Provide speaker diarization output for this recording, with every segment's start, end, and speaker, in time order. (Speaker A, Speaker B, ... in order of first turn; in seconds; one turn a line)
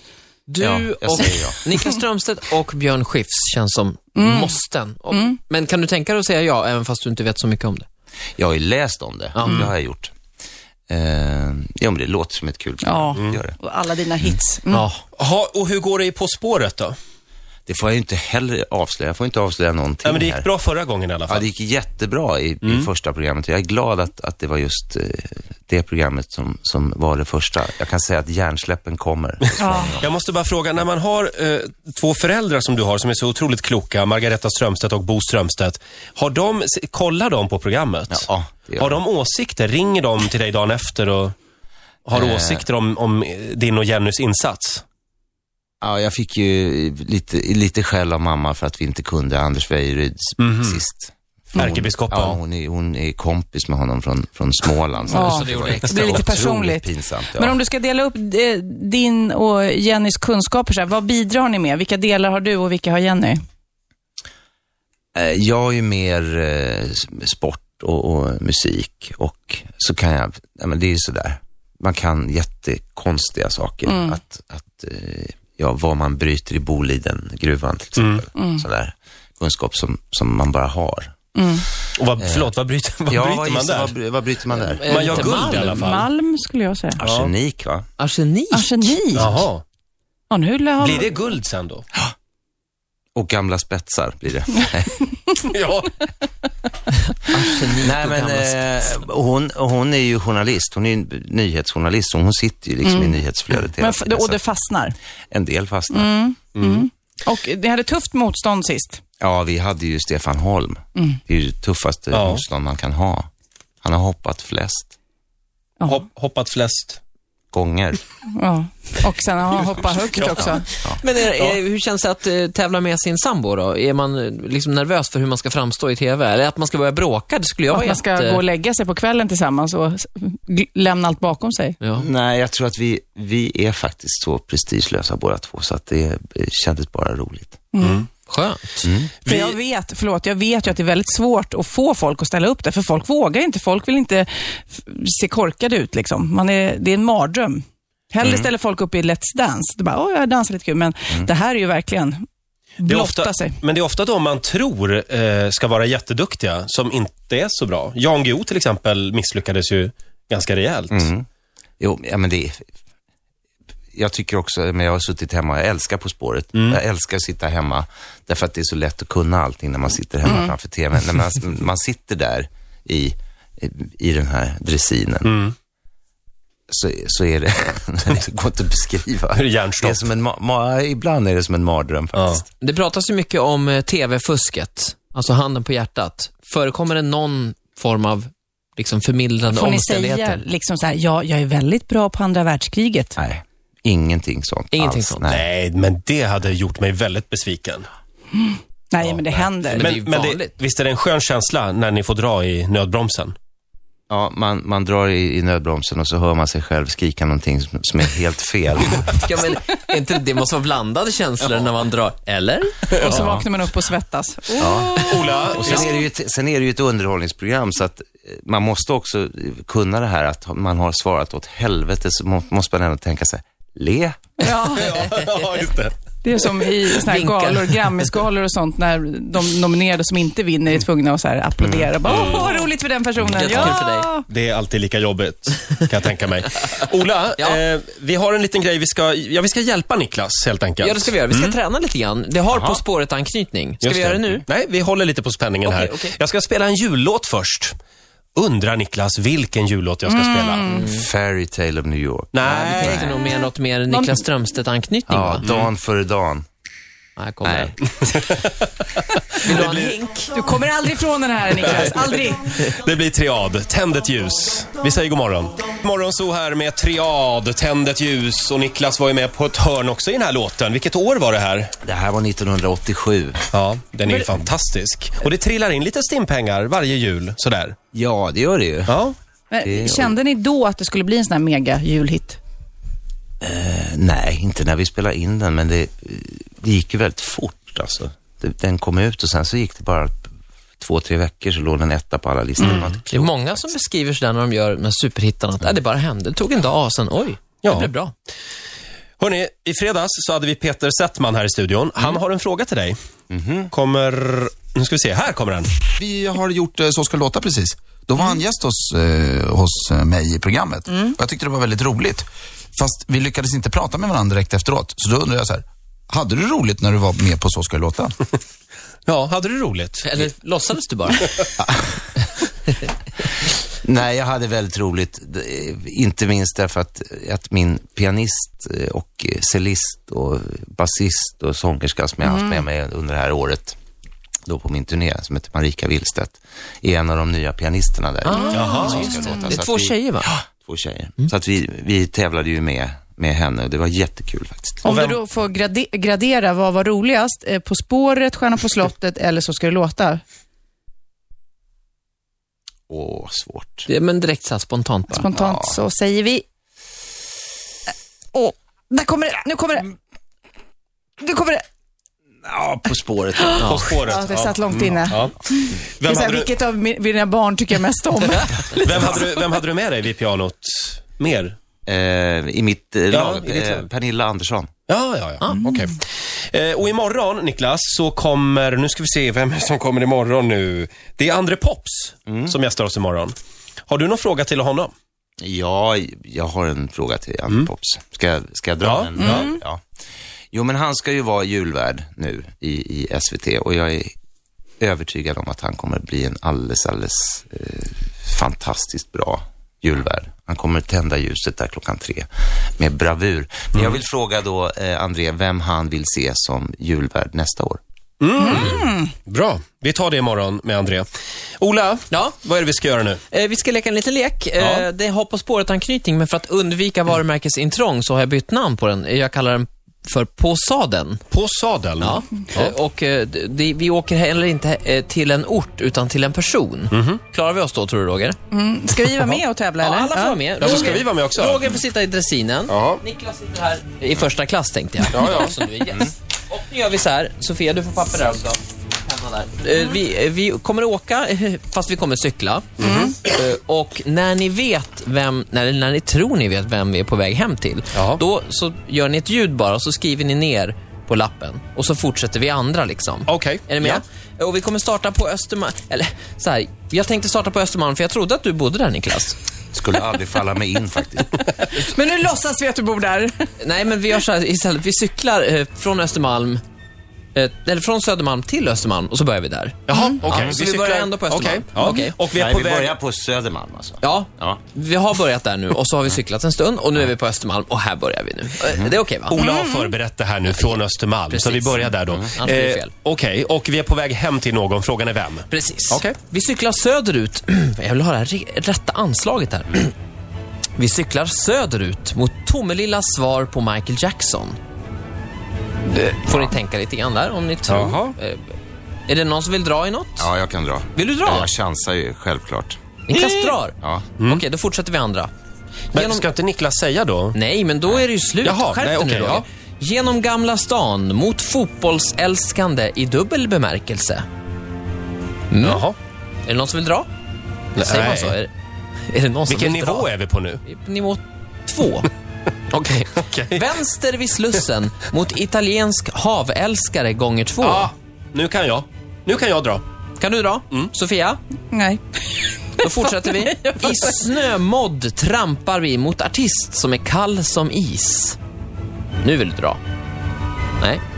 Speaker A: 0.5-7.9
Speaker B: 0.6-1.6
Speaker C: 4.2-4.6
Speaker B: 8.4-10.1
Speaker A: 9.3-9.7
Speaker B: 10.9-13.6
Speaker C: 12.8-14.9
Speaker A: 14.7-15.0
Speaker D: 15.2-17.0
Speaker B: 17.7-20.5
Speaker D: 20.1-21.5
Speaker B: 21.3-30.1
Speaker D: 22.6-22.9
Speaker C: 29.6-30.0
Speaker D: 30.0-41.3
Speaker B: 38.1-39.0
Speaker D: 42.1-44.8
Speaker B: 42.1-42.6
Speaker B: 45.8-57.6
Speaker D: 50.4-50.8
Speaker D: 51.6-52.4
Speaker A: 55.1-56.3
Speaker C: 55.1-63.4
Speaker B: 65.2-81.1
Speaker C: 73.9-74.2
Speaker D: 78.0-78.2
Speaker C: 78.4-78.6
Speaker C: 81.3-81.7
Speaker D: 81.9-84.0
Speaker B: 82.2-82.5
Speaker B: 83.1-85.4
Speaker A: 84.5-85.9
Speaker D: 84.9-86.1
Speaker C: 85.7-87.0
Speaker B: 87.0-87.8
Speaker D: 87.0-87.3
Speaker A: 88.0-88.9
Speaker C: 88.5-89.5
Speaker D: 89.2-89.6
Speaker C: 90.3-91.2
Speaker D: 90.8-91.8
Speaker B: 93.2-95.0
Speaker D: 95.5-96.1
Speaker A: 97.2-98.7
Speaker B: 97.8-104.4
Speaker C: 102.8-103.2
Speaker C: 103.8-105.0
Speaker B: 105.3-106.1
Speaker C: 105.9-109.0
Speaker D: 106.6-106.8
Speaker B: 109.2-113.3
Speaker D: 112.1-112.4
Speaker B: 113.8-114.9
Speaker D: 115.9-117.0
Speaker B: 117.5-118.0
Speaker C: 118.3-120.7
Speaker D: 120.1-120.6
Speaker A: 121.0-128.4
Speaker C: 127.7-131.8
Speaker A: 131.8-132.1
Speaker B: 132.0-137.6
Speaker C: 137.7-138.1
Speaker D: 137.8-138.1
Speaker A: 138.3-138.9
Speaker B: 138.8-139.1
Speaker D: 139.2-139.6
Speaker C: 139.3-152.2
Speaker B: 148.2-148.5
Speaker C: 152.8-153.6
Speaker D: 152.8-161.1
Speaker B: 160.9-161.3
Speaker B: 161.8-162.7
Speaker B: 163.9-175.3
Speaker C: 170.3-170.5
Speaker D: 175.2-175.6
Speaker B: 176.7-182.4
Speaker D: 179.3-180.0
Speaker D: 182.1-182.4
Speaker A: 182.6-190.4
Speaker C: 189.5-193.2
Speaker B: 193.2-195.4
Speaker A: 194.7-195.2
Speaker D: 195.3-197.9
Speaker C: 198.3-199.9
Speaker D: 199.0-203.3
Speaker A: 199.7-200.5
Speaker B: 204.1-209.2
Speaker A: 209.0-213.4
Speaker C: 212.9-215.8
Speaker D: 213.0-213.4
Speaker B: 214.6-224.2
Speaker D: 215.1-216.0
Speaker C: 224.4-225.1
Speaker D: 224.6-225.9
Speaker C: 226.2-234.3
Speaker A: 227.0-227.9
Speaker B: 231.6-231.9
Speaker D: 232.0-232.7
Speaker A: 233.3-234.1
Speaker D: 233.4-241.6
Speaker A: 240.8-244.4
Speaker B: 242.5-242.8
Speaker D: 243.8-247.8
Speaker A: 245.6-246.1
Speaker D: 248.4-250.6
Speaker C: 250.1-250.9
Speaker A: 250.7-251.1
Speaker B: 250.9-253.2
Speaker D: 252.3-253.1
Speaker A: 252.5-255.4
Speaker C: 253.9-254.2
Speaker B: 255.1-256.4
Speaker D: 255.4-255.7
Speaker A: 257.2-257.8
Speaker B: 257.4-257.7
Speaker D: 258.0-260.0
Speaker A: 259.4-260.4
Speaker C: 260.3-262.6
Speaker D: 262.6-271.7
Speaker B: 271.8-273.4
Speaker D: 273.5-277.8
Speaker B: 277.9-279.0
Speaker D: 278.9-279.2
Speaker C: 279.5-282.4
Speaker B: 279.6-280.2
Speaker B: 283.4-290.3
Speaker B: 290.8-293.7
Speaker A: 293.1-298.1
Speaker D: 297.6-297.9
Speaker D: 299.2-303.0
Speaker B: 303.3-303.7
Speaker D: 303.7-305.7
Speaker E: 305.9-318.2
Speaker D: 319.1-320.2
Speaker A: 320.0-321.3
Speaker B: 321.6-321.9
Speaker B: 323.8-333.8
Speaker B: 334.5-344.8
Speaker A: 338.3-340.4
Speaker D: 338.5-339.4
Speaker C: 338.5-339.0
Speaker C: 344.8-350.2
Speaker D: 344.9-345.2
Speaker B: 352.9-353.9
Speaker A: 353.9-355.3
Speaker C: 355.1-356.4
Speaker B: 355.3-355.8
Speaker C: 358.3-359.9
Speaker C: 361.2-361.6
Speaker B: 362.5-363.8
Speaker C: 363.4-369.2
Speaker A: 363.6-363.9
Speaker D: 363.6-365.4
Speaker D: 365.9-366.5
Speaker D: 368.8-371.6
Speaker B: 371.9-374.7
Speaker D: 373.1-373.9
Speaker D: 374.9-383.4
Speaker B: 382.3-382.6
Speaker D: 383.9-384.9
Speaker B: 385.4-389.8
Speaker D: 388.8-389.5
Speaker C: 389.2-389.6
Speaker B: 390.5-394.1
Speaker B: 394.8-407.8
Speaker D: 408.2-411.1
Speaker C: 408.4-409.1
Speaker D: 411.6-413.2
Speaker A: 412.1-412.4
Speaker A: 413.3-421.2
Speaker D: 414.6-414.9
Speaker D: 421.3-422.7
Speaker A: 422.0-428.4
Speaker D: 426.9-427.2
Speaker C: 428.5-431.0
Speaker A: 429.8-459.4
Speaker D: 430.6-431.8
Speaker D: 432.7-433.0
Speaker D: 435.1-435.6
Speaker D: 442.8-443.1
Speaker C: 442.8-443.1
Speaker D: 447.9-448.2
Speaker D: 453.3-454.0
Speaker B: 459.7-461.4
Speaker C: 461.5-463.5
Speaker A: 463.6-466.6
Speaker A: 467.4-472.2
Speaker D: 469.9-473.0
Speaker C: 469.9-470.2
Speaker B: 472.3-474.6
Speaker A: 474.0-479.4
Speaker B: 478.7-479.0
Speaker D: 479.3-486.1
Speaker C: 479.4-479.9
Speaker A: 480.5-480.8
Speaker A: 481.3-482.9
Speaker B: 482.1-482.4
Speaker A: 485.5-489.9
Speaker A: 490.8-494.6
Speaker A: 495.9-498.5
Speaker B: 496.3-496.6
Speaker D: 497.7-498.2
Speaker A: 499.1-500.3
Speaker B: 500.2-502.8
Speaker A: 501.0-501.5
Speaker A: 503.1-505.3
Speaker D: 503.1-503.6
Speaker B: 503.8-504.1
Speaker D: 505.9-507.4
Speaker A: 505.9-506.3
Speaker A: 507.3-514.2
Speaker D: 508.4-509.4
Speaker A: 515.5-515.9
Speaker D: 515.6-516.0
Speaker A: 516.5-517.1
Speaker D: 517.8-518.4
Speaker A: 517.8-518.5
Speaker A: 519.1-520.1
Speaker D: 519.5-520.6
Speaker A: 520.6-522.1
Speaker A: 522.7-527.9
Speaker D: 523.2-523.6
Speaker D: 527.6-529.8
Speaker A: 530.2-531.4
Speaker C: 531.7-534.1
Speaker A: 532.8-538.4
Speaker A: 539.2-539.8